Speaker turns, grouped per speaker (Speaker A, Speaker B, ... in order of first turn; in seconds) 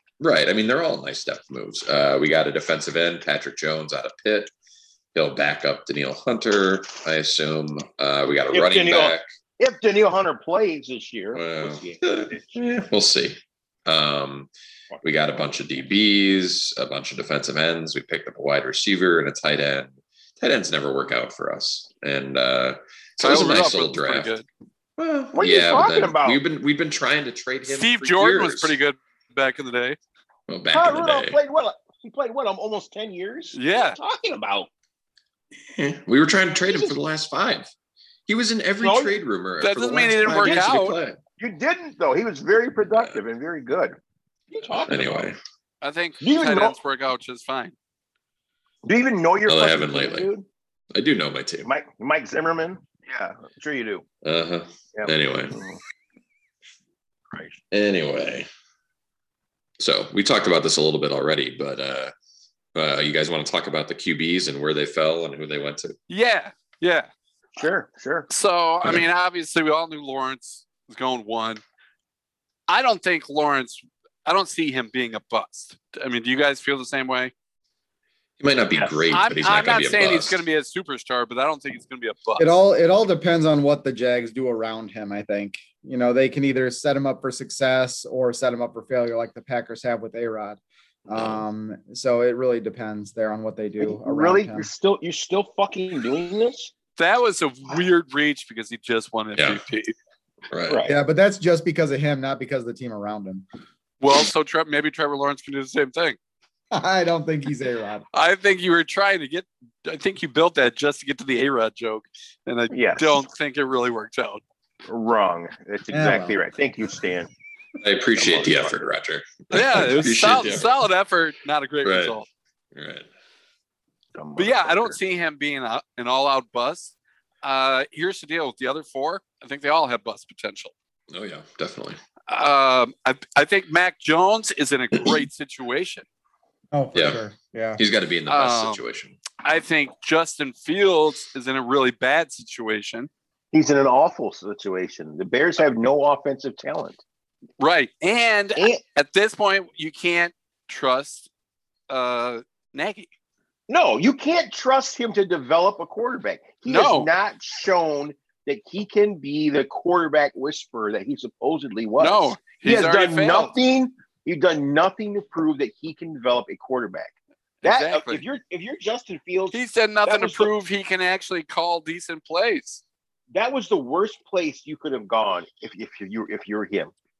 Speaker A: 0.2-4.5, 5.1-9.2, 11.3-14.5, 15.0-24.4, 25.0-28.8, 30.5-31.4, 35.7-37.7, 38.3-41.2, 44.9-45.4, 49.5-50.3, 50.9-51.7, 54.2-55.6, 57.7-58.5, 59.8-62.1, 62.7-66.0, 78.4-80.4, 91.1-91.4, 100.5-100.8, 117.8-120.7, 121.8-122.2, 122.7-123.1, 131.1-132.0, 136.9-137.2, 137.8-139.2
Speaker B: 8.5-12.4, 25.3-26.4, 30.7-34.7, 36.6-37.0, 38.8-39.2, 40.3-40.7, 41.4-44.0, 44.5-45.3, 46.2-46.8, 48.8-50.4, 51.6-54.0, 54.9-55.8, 67.6-68.3, 93.8-96.7, 100.7-101.0, 112.7-113.2, 114.8-117.3, 118.1-118.8, 124.1-125.0, 143.5-147.0, 153.7-167.1, 167.6-170.5, 173.3-176.9
Speaker C: 23.2-24.4, 27.7-30.0, 33.5-34.0, 39.6-41.0, 45.8-47.7, 66.1-67.1, 68.3-71.6, 72.7-77.3, 79.1-82.5, 97.0-99.9, 104.0-106.2, 108.1-114.4, 119.5-122.3, 124.3-130.7, 132.3-136.1, 138.3-138.8, 139.4-143.1, 147.6-151.3, 151.9-153.1, 156.7-157.1, 162.0-163.5, 167.6-168.2, 169.5-172.8
Speaker D: 82.4-94.7, 100.8-103.4, 106.7-108.0, 115.9-116.4, 136.7-137.8